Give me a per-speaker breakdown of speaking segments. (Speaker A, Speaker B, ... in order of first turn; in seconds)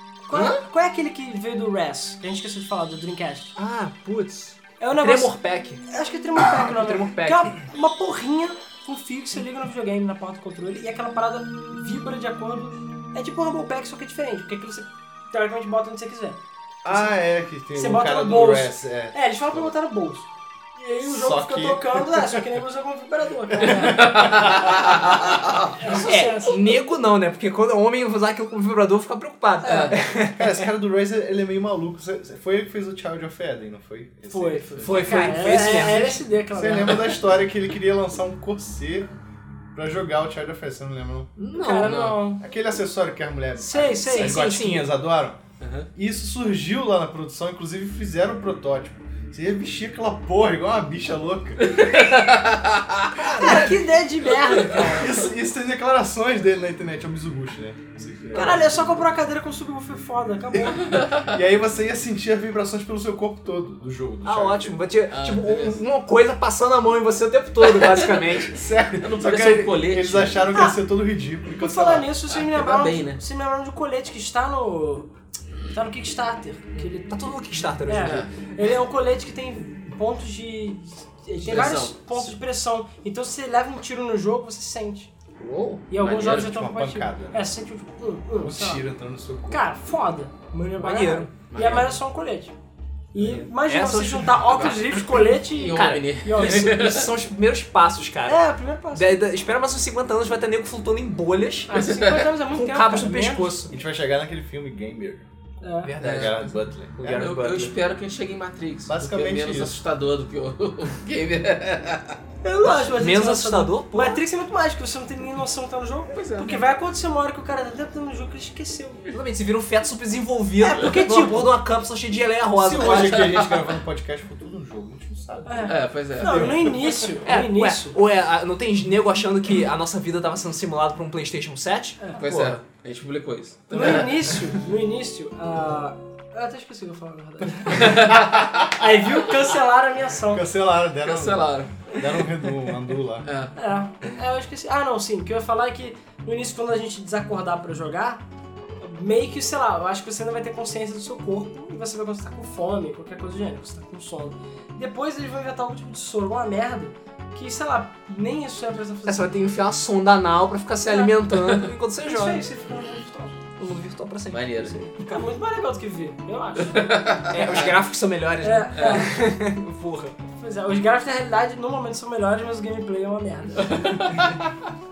Speaker A: 0.2-3.5, 4.8-17.1, 17.7-24.5, 25.7-26.8, 34.3-37.2, 41.5-42.4, 43.6-44.4, 53.3-55.2, 58.3-61.0, 70.5-70.8, 71.5-75.1, 75.7-77.1, 77.9-85.1, 85.9-88.8, 89.5-92.5, 93.1-96.9, 98.2-99.1, 101.7-103.6, 105.6-105.9, 112.4-119.1, 120.6-121.5, 125.4-128.0, 133.7-140.4, 143.6-148.2, 148.8-159.3, 160.8-161.2, 162.0-163.4, 165.1-167.0, 168.4-169.2, 170.3-174.1
Speaker B: 0.3-0.6, 3.5-5.8, 6.5-7.5, 25.9-30.6, 34.8-36.2, 41.4-42.1, 44.0-44.9, 53.1-53.8, 54.6-54.9, 58.3-58.6, 64.2-68.5, 77.1-78.2, 85.4-85.8, 90.8-91.3, 93.2-94.7, 95.7-98.4, 98.9-101.8, 102.5-103.7, 105.8-107.7, 112.9-114.2, 119.1-123.3, 127.2-132.6, 159.1-162.4, 163.6-165.2, 167.3-170.1
Speaker C: 16.8-19.7, 21.0-22.4, 23.5-25.2, 30.3-39.1, 39.7-41.3, 42.4-45.4, 45.9-51.9, 54.8-59.1, 61.0-64.8, 68.5-72.1, 86.2-87.4, 88.4-89.6, 103.7-105.3, 106.0-107.0, 108.9-109.8, 122.5-126.9, 138.1-138.6, 140.3-143.3
Speaker D: 23.8-25.6, 29.6-30.0, 34.7-35.2, 41.8-42.2, 45.6-45.9, 51.8-53.1, 60.7-61.3, 65.1-65.8, 67.7-68.1, 69.0-70.5, 72.3-73.2, 78.0-78.3, 81.4-82.4, 85.9-86.5, 91.5-92.0, 94.5-97.1, 101.7-102.3, 106.0-106.4, 107.0-112.2, 116.1-116.6, 122.8-123.7, 125.7-126.8, 132.1-134.6, 137.7-138.1, 141.0-142.3, 143.2-143.5, 161.3-161.6, 164.3-164.9, 166.6-167.8, 168.7-169.1, 173.6-174.4